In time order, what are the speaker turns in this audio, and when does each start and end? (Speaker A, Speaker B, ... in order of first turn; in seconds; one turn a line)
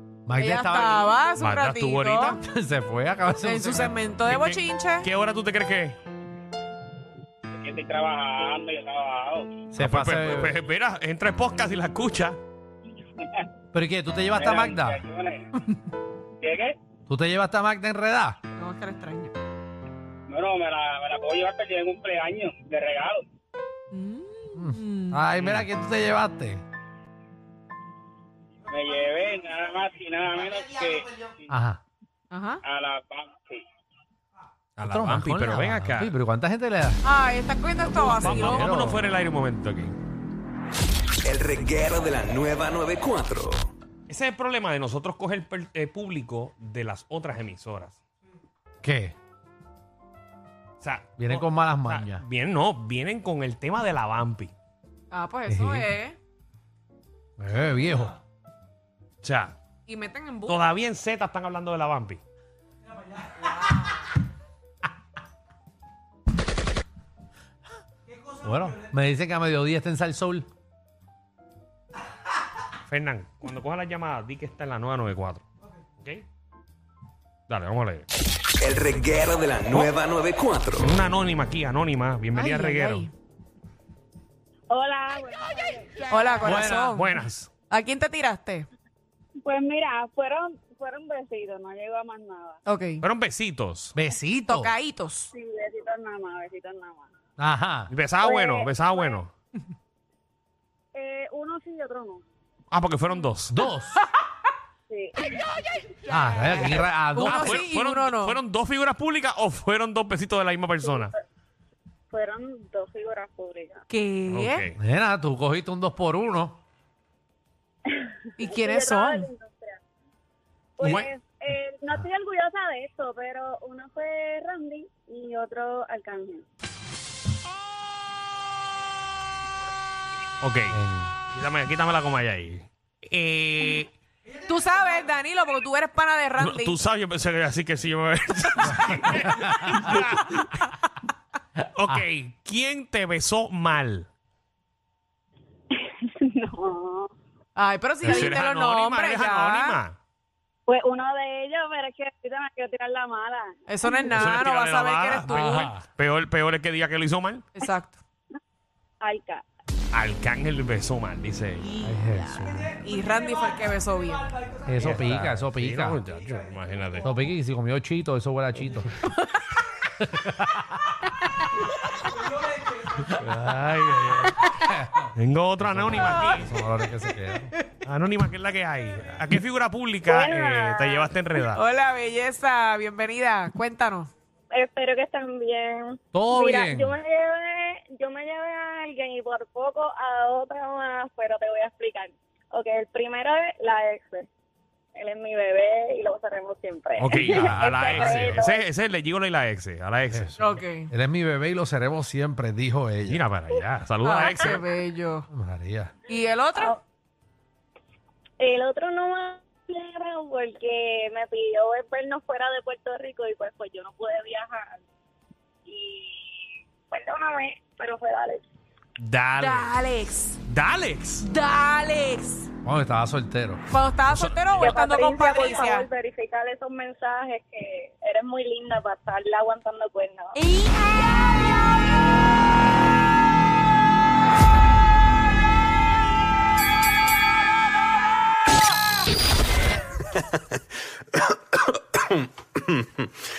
Speaker A: 0.3-1.2
Speaker B: 0.4-2.4
Speaker C: 1.4-2.4
Speaker A: 2.4-4.0
Speaker B: 3.4-5.1
Speaker C: 4.3-6.0
Speaker D: 7.5-9.5
Speaker A: 9.7-10.6
Speaker C: 9.8-12.4
Speaker A: 13.7-15.0
Speaker D: 14.4-15.5
Speaker D: 16.4-16.8
Speaker A: 17.1-18.4
Speaker B: 18.6-19.3
Speaker D: 20.3-23.2
Speaker B: 23.9-25.2
Speaker A: 24.6-26.6
Speaker C: 25.4-25.7
Speaker D: 28.7-31.1
Speaker A: 31.5-31.8
Speaker B: 32.3-32.6
Speaker D: 32.6-33.6
Speaker C: 34.8-36.1
Speaker A: 34.8-37.0
Speaker B: 37.0-38.7
Speaker A: 37.9-39.0
Speaker C: 38.1-40.0
Speaker E: 41.2-43.7
Speaker C: 44.1-48.0
Speaker A: 48.8-49.1
Speaker C: 50.8-54.5
Speaker A: 51.2-52.2
Speaker B: 55.1-56.2
Speaker A: 55.5-55.9
Speaker A: 57.4-58.2
Speaker C: 59.2-59.5
Speaker B: 59.9-60.6
Speaker C: 60.5-62.2
Speaker B: 63.4-63.9
Speaker A: 68.3-70.5
Speaker C: 72.9-75.4
Speaker C: 76.0-76.2
Speaker C: 77.5-78.1
Speaker E: 78.6-81.0
Speaker C: 80.8-83.1
Speaker B: 82.3-83.1
Speaker F: 84.7-86.4
Speaker B: 86.1-88.7
Speaker A: 86.4-86.9
Speaker C: 86.9-87.5
Speaker F: 89.4-92.6
Speaker B: 92.7-93.0
Speaker C: 93.0-93.9
Speaker A: 94.0-94.7
Speaker B: 94.5-95.3
Speaker F: 95.3-97.1
Speaker A: 97.4-97.9
Speaker C: 97.9-99.3
Speaker F: 98.2-99.2
Speaker F: 100.9-102.2
Speaker C: 102.7-103.6
Speaker A: 103.5-104.0
Speaker A: 106.1-107.7
Speaker B: 107.1-108.4
Speaker C: 107.2-111.1
Speaker F: 112.1-113.8
Speaker B: 113.9-114.7
Speaker C: 114.3-114.8
Speaker A: 114.8-116.6
Speaker F: 117.9-119.8
Speaker B: 118.4-119.3
Speaker F: 120.8-126.5
Speaker C: 120.8-121.1
Speaker C: 130.4-130.8
Speaker A: 130.7-131.1
Speaker C: 131.3-133.9
Speaker B: 134.4-136.8
Speaker C: 136.4-140.5
Speaker A: 138.7-139.9
Speaker C: 141.7-144.1
Speaker F: 145.7-147.1
Speaker B: 147.6-149.8
Speaker C: 148.0-150.0
Speaker F: 150.7-154.4
Speaker B: 153.7-155.7
Speaker C: 154.1-157.5
Speaker A: 155.4-155.8
Speaker B: 157.6-158.0
Speaker F: 159.0-159.4
Speaker C: 159.9-161.7
Speaker B: 161.7-164.3
Speaker A: 161.8-162.8
Speaker A: 164.7-166.0
Speaker C: 164.8-167.1
Speaker A: 167.0-169.0
Speaker A: 170.0-171.0
Speaker C: 173.0-174.4
Speaker A: 174.6-175.1
Speaker C: 175.2-176.5
Speaker A: 175.6-177.5
Speaker C: 177.8-181.6
Speaker F: 180.1-181.1
Speaker B: 181.5-184.1
Speaker F: 184.5-194.3
Speaker A: 186.1-186.9
Speaker F: 194.9-198.6
Speaker C: 197.0-200.4
Speaker A: 197.3-198.4
Speaker A: 200.1-203.2
Speaker B: 200.4-200.9
Speaker C: 203.1-204.6
Speaker B: 204.0-205.3
Speaker A: 205.3-205.9
Speaker B: 206.1-206.8
Speaker F: 208.4-214.8
Speaker F: 215.7-218.4
Speaker C: 219.0-219.7
Speaker B: 219.4-220.4
Speaker C: 220.5-221.2
Speaker B: 221.2-222.5
Speaker A: 222.6-223.6
Speaker B: 223.7-225.9
Speaker C: 224.1-224.8
Speaker F: 224.6-230.4
Speaker B: 230.4-231.4
Speaker E: 241.6-243.2